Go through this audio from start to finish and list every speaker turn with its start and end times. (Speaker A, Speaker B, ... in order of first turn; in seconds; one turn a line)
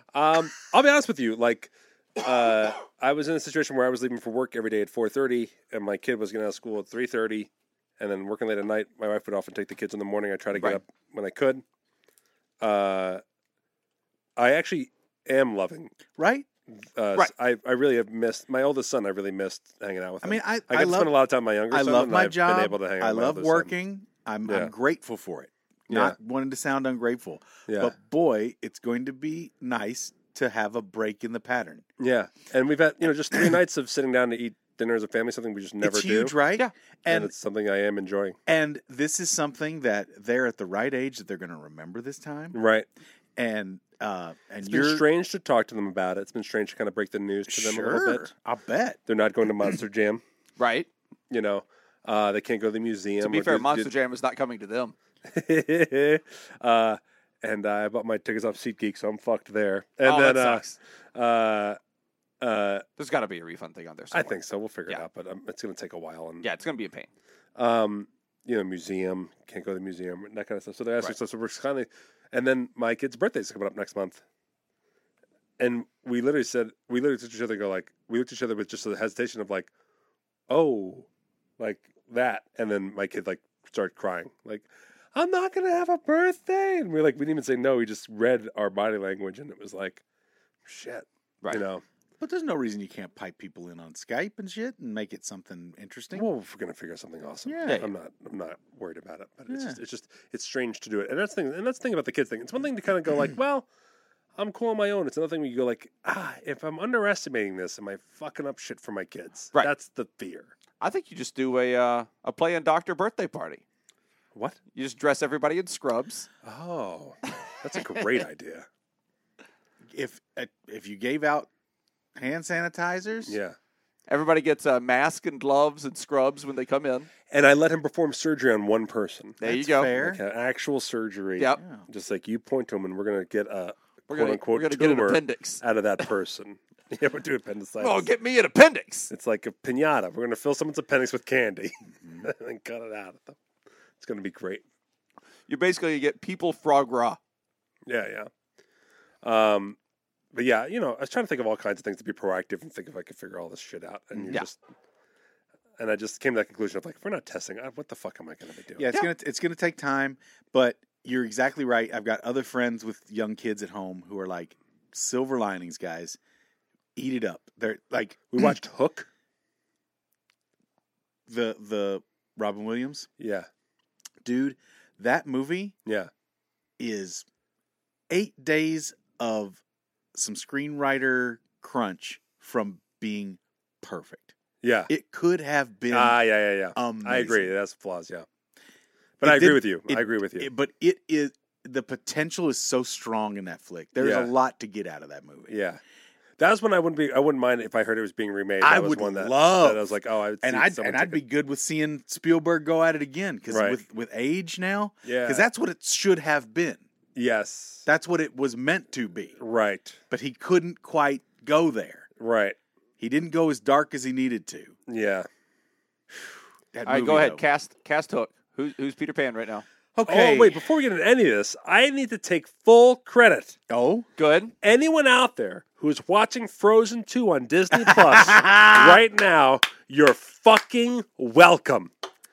Speaker A: 0.1-11.6
Speaker B: 10.5-10.8
Speaker A: 12.6-13.2
Speaker A: 14.4-15.9
Speaker C: 16.1-16.4
Speaker A: 16.9-23.7
Speaker C: 20.2-21.1
Speaker C: 21.7-31.8
Speaker A: 24.4-24.7
Speaker A: 25.9-26.1
Speaker A: 27.7-27.9
Speaker A: 32.0-36.3
Speaker C: 35.8-37.3
Speaker A: 37.1-38.4
Speaker C: 38.5-42.6
Speaker A: 42.5-42.9
Speaker C: 43.4-45.0
Speaker A: 44.6-48.3
Speaker C: 47.5-49.0
Speaker A: 49.1-50.2
Speaker B: 50.6-50.9
Speaker A: 51.3-53.9
Speaker B: 53.2-54.9
Speaker A: 55.2-61.8
Speaker B: 60.0-60.8
Speaker A: 62.4-62.8
Speaker B: 63.0-65.0
Speaker A: 64.1-66.5
Speaker B: 66.4-67.1
Speaker A: 67.5-74.2
Speaker A: 75.6-79.7
Speaker A: 80.5-81.1
Speaker A: 81.6-90.0
Speaker A: 90.6-91.8
Speaker C: 92.2-96.3
Speaker A: 96.1-103.7
Speaker C: 97.5-97.8
Speaker C: 99.5-99.8
Speaker A: 104.3-110.5
Speaker B: 110.8-113.6
Speaker B: 114.7-116.3
Speaker A: 116.4-118.7
Speaker C: 119.9-121.5
Speaker C: 122.2-123.4
Speaker A: 123.3-123.5
Speaker B: 124.1-127.1
Speaker A: 127.3-138.1
Speaker B: 129.4-129.9
Speaker C: 129.4-130.2
Speaker C: 131.6-131.9
Speaker B: 134.1-135.6
Speaker B: 137.8-139.1
Speaker A: 139.1-143.4
Speaker A: 144.0-144.6
Speaker B: 145.5-147.2
Speaker A: 147.9-148.3
Speaker A: 149.2-149.8
Speaker A: 150.3-154.6
Speaker C: 154.1-154.4
Speaker A: 155.8-158.9
Speaker C: 158.8-166.2
Speaker C: 166.9-168.5
Speaker A: 168.3-169.1
Speaker C: 171.3-173.1
Speaker A: 173.2-173.5
Speaker C: 174.2-175.8
Speaker C: 176.8-177.2
Speaker C: 178.1-179.6
Speaker C: 180.1-184.3
Speaker A: 184.6-184.9
Speaker C: 184.9-186.2
Speaker A: 185.9-188.2
Speaker C: 186.7-187.5
Speaker A: 189.2-190.5
Speaker C: 189.2-195.5
Speaker A: 194.0-194.3
Speaker A: 195.5-195.8
Speaker A: 196.4-201.2
Speaker C: 198.6-199.8
Speaker C: 200.4-206.8
Speaker A: 203.5-203.8
Speaker A: 205.0-205.4
Speaker A: 207.2-207.8
Speaker C: 207.8-209.4
Speaker A: 209.4-210.0
Speaker C: 210.1-212.1
Speaker A: 212.2-212.6
Speaker C: 213.0-214.7
Speaker A: 214.9-215.3
Speaker C: 216.7-217.4
Speaker B: 216.8-219.6
Speaker C: 219.9-220.6
Speaker A: 220.1-223.6
Speaker C: 223.7-224.1
Speaker B: 224.2-224.5
Speaker A: 224.6-231.9
Speaker C: 227.7-229.0